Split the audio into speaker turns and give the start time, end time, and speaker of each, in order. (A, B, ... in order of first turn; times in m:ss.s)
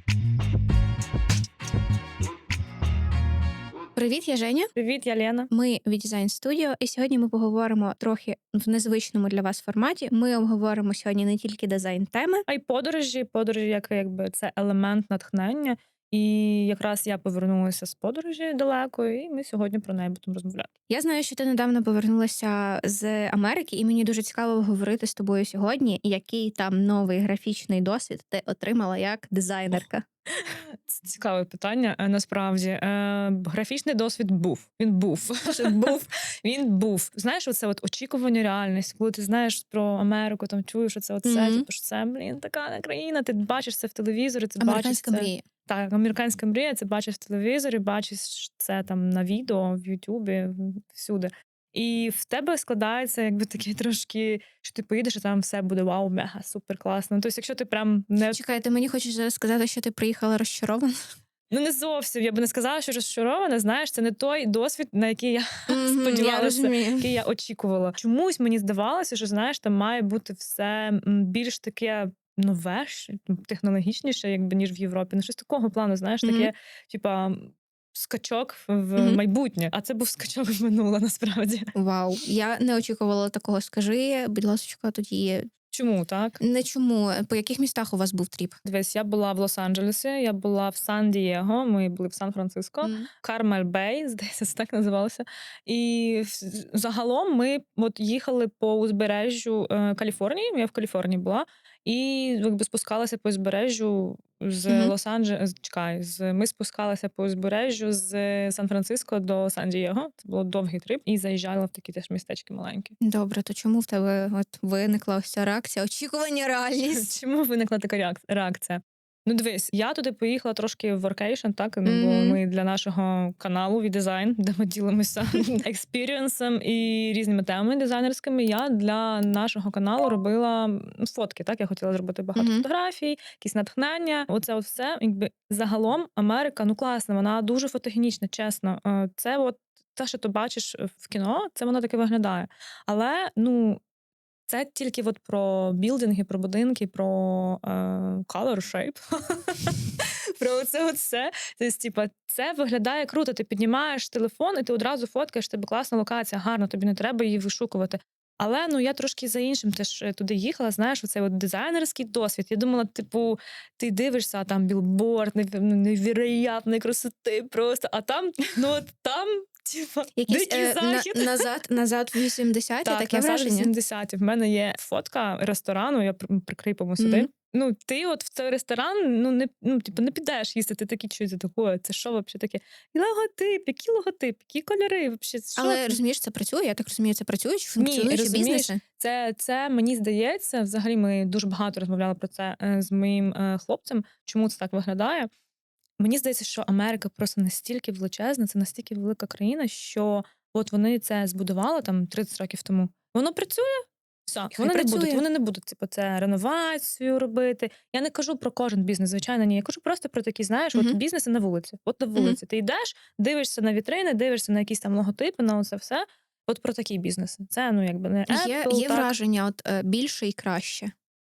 0:04.0-0:04.7 A
0:04.8-0:05.5 B
0:05.5-0:12.4 A
0:12.5-0:20.7 B
0:20.9-0:30.0 A
0:30.4-0:58.4 B
0:35.5-0:36.0 A
0:41.2-0:41.6 A
0:44.6-0:45.4 A
0:58.3-1:00.9 A
1:01.5-1:21.7 B
1:05.7-1:07.1 A
1:16.2-1:16.5 A
1:21.7-1:25.5 A
1:25.7-1:26.4 B
1:26.4-1:28.6 A
1:28.6-1:52.9 B
1:32.8-1:33.1 A
1:53.0-1:57.1 A
1:56.8-2:23.8 B
2:01.8-2:02.4 A
2:12.4-2:12.6 A
2:24.5-2:51.4 B
2:50.2-2:53.7 A
2:52.8-3:06.0 B
2:57.0-2:57.3 A
3:05.6-3:08.8 A
3:07.8-3:15.3 B
3:16.0-3:39.1 B
3:24.5-3:25.2 A
3:38.3-3:40.9 A